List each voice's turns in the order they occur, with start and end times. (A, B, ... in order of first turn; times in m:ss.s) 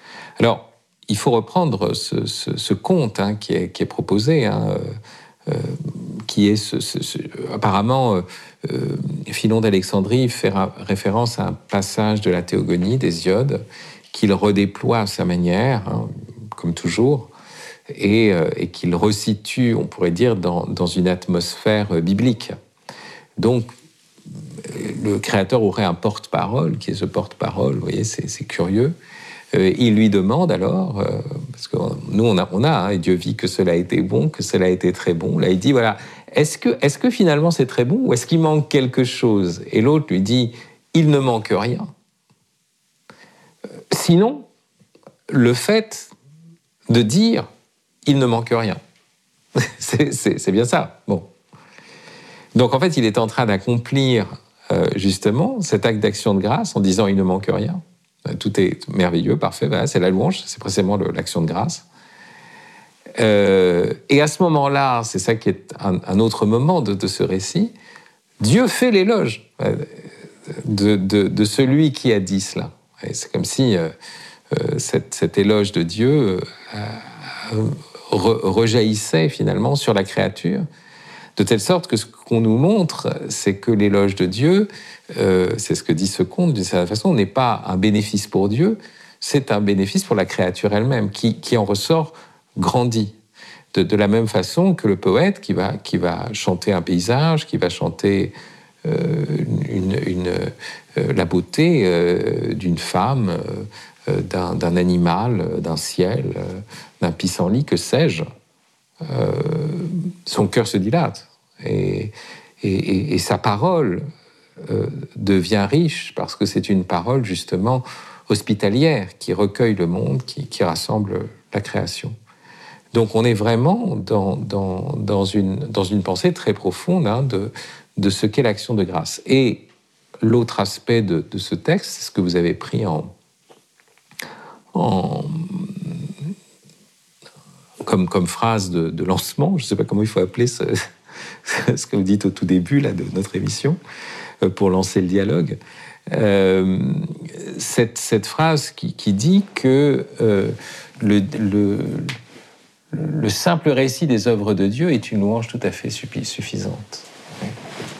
0:00.4-0:17.3 A
0:17.9-0:22.5 A
0:23.4-0:23.7 A
0:24.5-0:28.9 A
0:29.5-0:41.9 A
0:43.9-0:44.5 A
0:45.3-0:46.1 A
0:46.9-0:47.5 A
0:48.0-0:48.8 A
0:49.6-0:51.3 A
0:52.5-1:01.8 A
1:03.1-1:07.7 A
1:08.4-1:13.9 A
1:14.5-1:20.6 A
1:21.4-1:33.1 A
1:33.7-1:48.2 A
1:49.0-1:54.0 A
1:54.6-2:02.2 A
2:02.9-2:09.6 A
2:10.2-2:13.1 A
2:14.7-2:16.3 A
2:17.8-2:20.8 A
2:21.4-2:23.8 A
2:24.4-2:25.6 A
2:26.1-2:32.2 A
2:32.9-2:37.5 A